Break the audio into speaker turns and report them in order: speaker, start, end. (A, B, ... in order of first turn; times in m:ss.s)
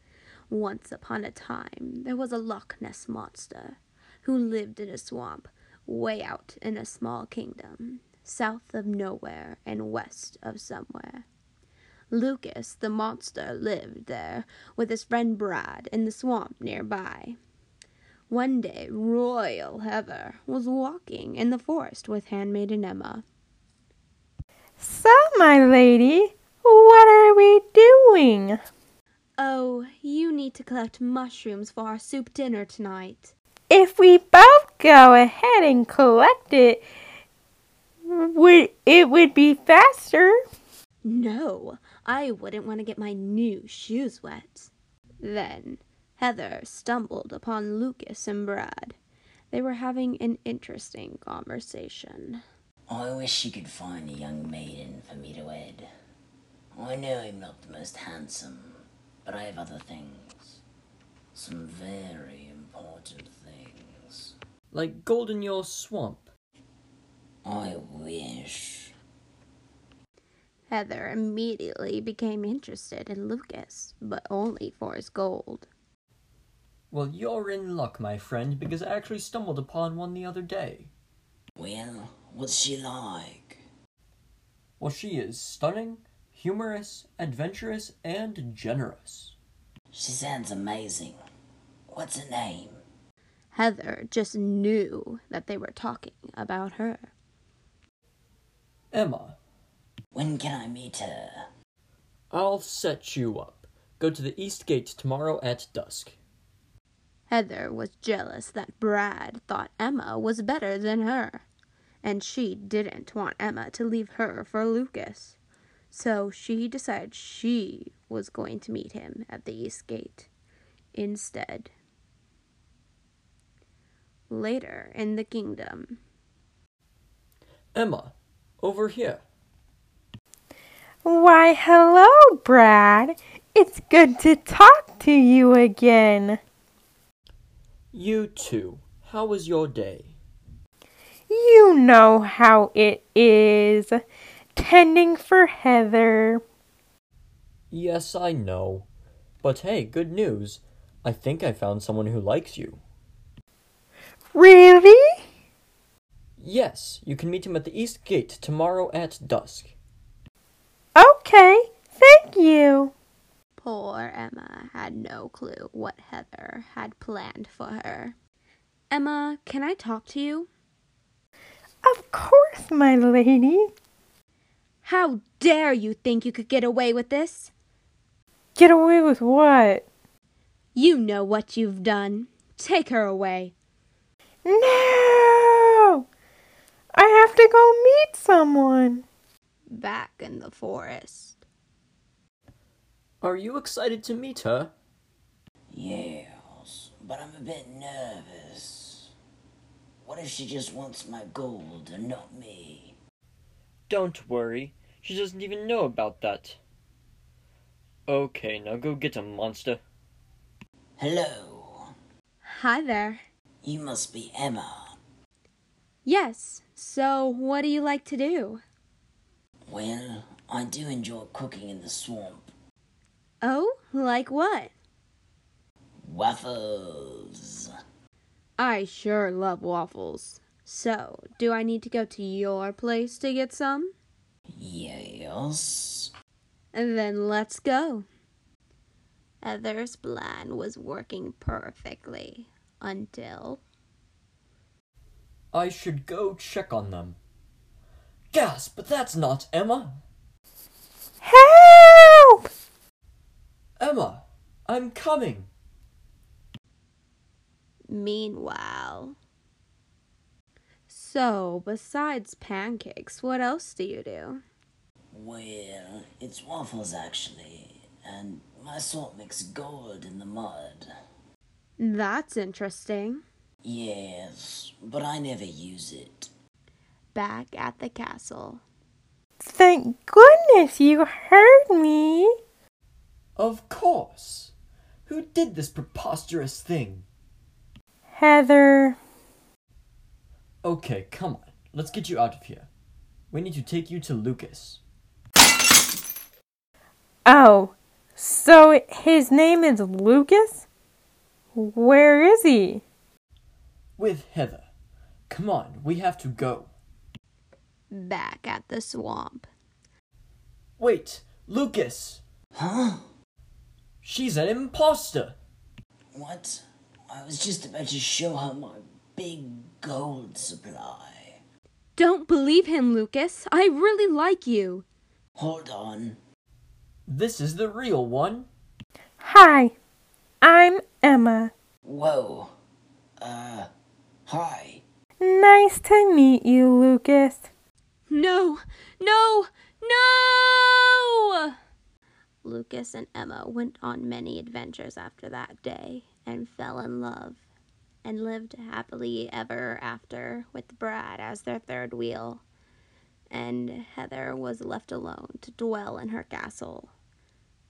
0:00.5-0:11.2 A
0:12.1-0:17.4 A
0:18.3-0:23.2 A
0:24.8-0:28.6 B
0:29.4-0:33.3 A
0:33.7-0:36.8 B
0:38.1-0:40.4 B
0:41.0-0:49.0 A
0:49.5-0:52.4 A
0:52.9-0:55.9 C
0:56.8-1:00.6 C
1:01.3-1:04.3 C
1:04.7-1:06.3 D
1:07.4-1:08.9 C
1:10.7-1:15.7 A
1:16.9-1:20.9 D
1:21.6-1:23.6 C
1:24.8-1:29.4 D
1:29.9-1:31.2 C
1:31.9-1:32.8 C
1:33.5-1:37.1 A
1:38.9-1:39.4 D
1:40.1-1:41.4 C
1:42.3-1:46.2 D
1:47.3-1:51.4 A
1:52.0-1:55.4 A
1:55.9-2:00.3 A
2:00.9-2:01.7 A
2:04.3-2:06.0 A
2:07.7-2:09.2 D
2:11.0-2:16.4 B
2:17.9-2:20.2 D
2:21.3-2:24.0 B
2:24.6-2:26.4 B
2:27.7-2:28.9 D
2:29.4-2:32.8 D
2:34.3-2:35.2 B
2:36.4-2:39.7 D
2:41.0-2:42.9 B
2:43.6-2:48.1 A
2:48.9-2:50.5 A
2:51.8-2:53.7 B
2:54.8-2:57.5 A
2:58.6-2:59.8 B
3:00.7-3:03.5 A
3:04.4-3:06.0 B
3:06.9-3:09.0 B
3:09.7-3:11.4 A
3:13.2-3:14.7 D
3:15.7-3:19.1 C
3:20.0-3:23.0 C
3:23.9-3:26.6 D
3:28.1-3:29.8 D
3:31.0-3:31.9 C
3:32.4-3:33.2 A
3:33.6-3:34.9 C
3:36.0-3:38.6 A
3:39.7-3:42.5 C
3:43.4-3:44.7 A
3:46.0-3:47.7 C
3:48.6-3:53.9 A
3:54.5-3:56.1 C
3:56.7-3:58.1 A
3:59.4-4:03.6 A
4:05.5-4:07.2 D
4:08.3-4:10.0 D
4:11.2-4:12.4 B
4:13.8-4:15.5 D
4:17.9-4:19.2 A
4:20.9-4:24.4 A
4:25.1-4:30.9 C
4:31.8-4:33.2 A
4:33.6-4:36.3 C
4:37.1-4:38.6 A
4:39.4-4:42.3 B
4:43.4-4:44.5 D
4:45.0-4:47.0 D
4:48.1-4:49.0 B
4:50.6-4:52.7 D
4:53.3-4:54.8 D
4:57.2-5:00.6 B
5:01.5-5:02.8 B
5:04.0-5:04.7 D
5:05.3-5:06.7 D
5:07.9-5:09.5 A
5:10.8-5:12.2 D
5:12.5-5:13.0 C
5:14.0-5:15.4 D
5:16.1-5:21.4 C
5:22.0-5:24.8 A
5:25.4-5:26.2 C
5:27.1-5:28.5 D
5:29.2-5:29.7 B
5:30.4-5:31.5 B
5:31.8-5:32.5 C
5:33.2-5:33.7 C
5:34.3-5:34.8 C
5:35.2-5:37.4 B
5:38.1-5:41.6 A
5:42.4-5:47.4 A
5:48.0-5:52.4 A
5:53.3-5:56.9 A